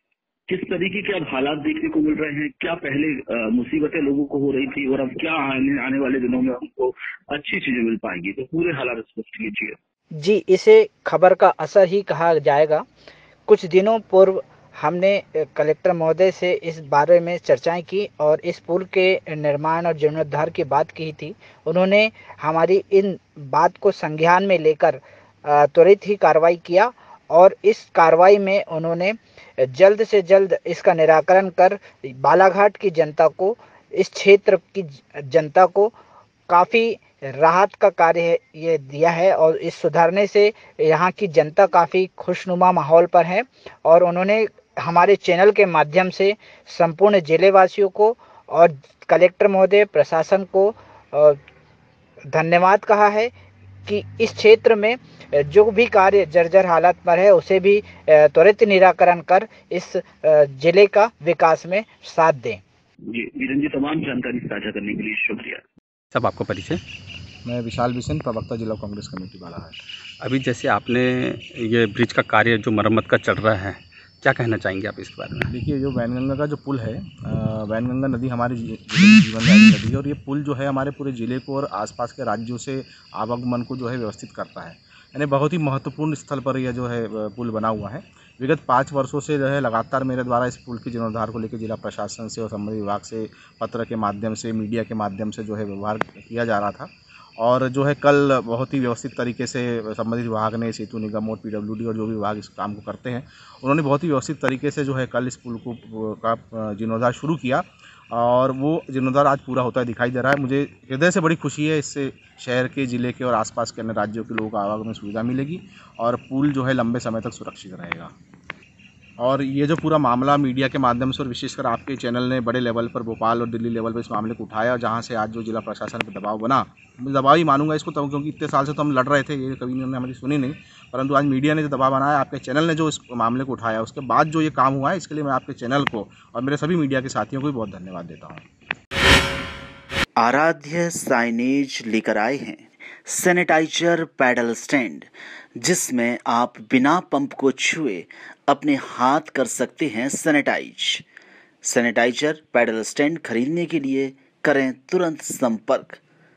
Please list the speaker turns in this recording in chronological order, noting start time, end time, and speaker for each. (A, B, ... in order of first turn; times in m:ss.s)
0:00.5-0:09.8 A
0:10.1-0:12.8 B
0:13.5-0:35.9 B
0:36.5-0:51.4 B
0:52.3-0:53.3 B
0:53.8-1:02.6 B
1:03.1-1:05.6 A
1:06.1-1:06.8 C
1:07.4-1:09.7 D
1:10.2-1:15.5 C
1:15.5-1:58.1 D
1:59.2-2:18.4 D
2:20.2-2:31.0 E
2:31.6-2:36.0 E